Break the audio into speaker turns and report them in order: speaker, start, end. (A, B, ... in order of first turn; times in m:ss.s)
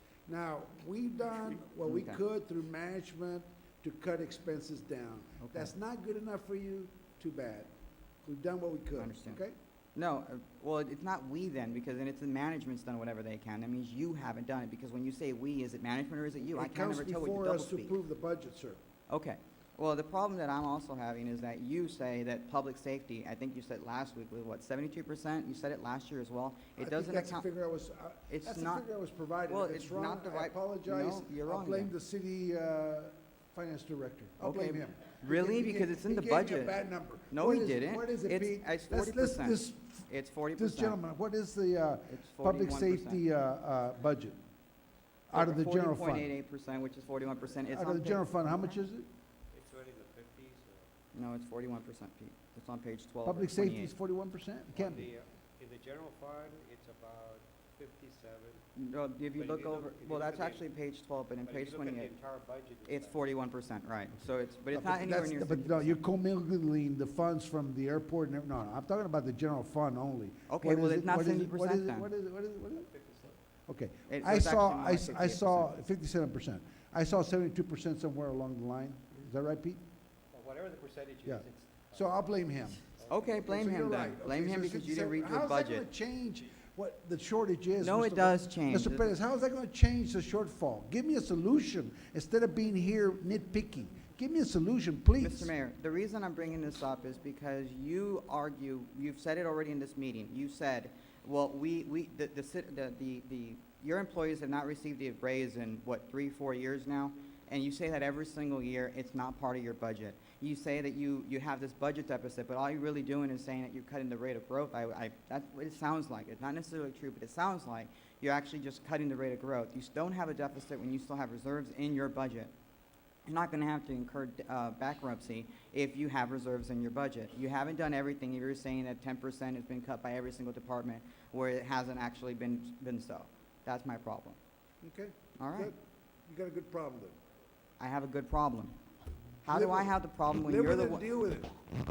0:00.2-0:07.7 A
0:01.8-0:02.2 B
0:05.4-0:05.7 B
0:08.2-0:09.6 A
0:09.0-0:09.4 B
0:09.9-0:17.9 B
0:16.5-0:18.8 A
0:19.1-0:27.5 B
0:26.8-0:44.4 A
0:28.3-0:28.8 B
0:29.5-0:31.9 B
0:34.4-0:36.8 B
0:37.3-0:41.0 B
0:42.1-0:43.2 B
0:45.3-0:46.3 A
0:45.3-0:48.8 B
0:47.7-0:49.1 A
0:49.5-0:50.9 C
0:51.1-0:53.9 B
0:53.2-0:55.1 A
0:54.7-0:58.6 C
0:58.8-1:02.1 B
0:59.3-1:00.6 C
1:01.4-1:03.3 C
1:02.8-1:06.0 B
1:04.7-1:12.9 A
1:10.5-1:12.1 B
1:12.7-1:13.4 C
1:13.7-1:19.8 A
1:14.1-1:15.7 B
1:20.3-1:22.2 C
1:21.2-1:22.8 A
1:22.9-1:23.4 C
1:23.1-1:25.8 B
1:23.4-1:35.5 A
1:27.8-1:29.1 B
1:35.2-2:02.5 B
2:03.2-2:14.4 B
2:14.8-2:17.2 A
2:15.4-2:15.7 B
2:17.8-2:18.7 B
2:19.4-2:21.0 B
2:19.5-2:21.5 A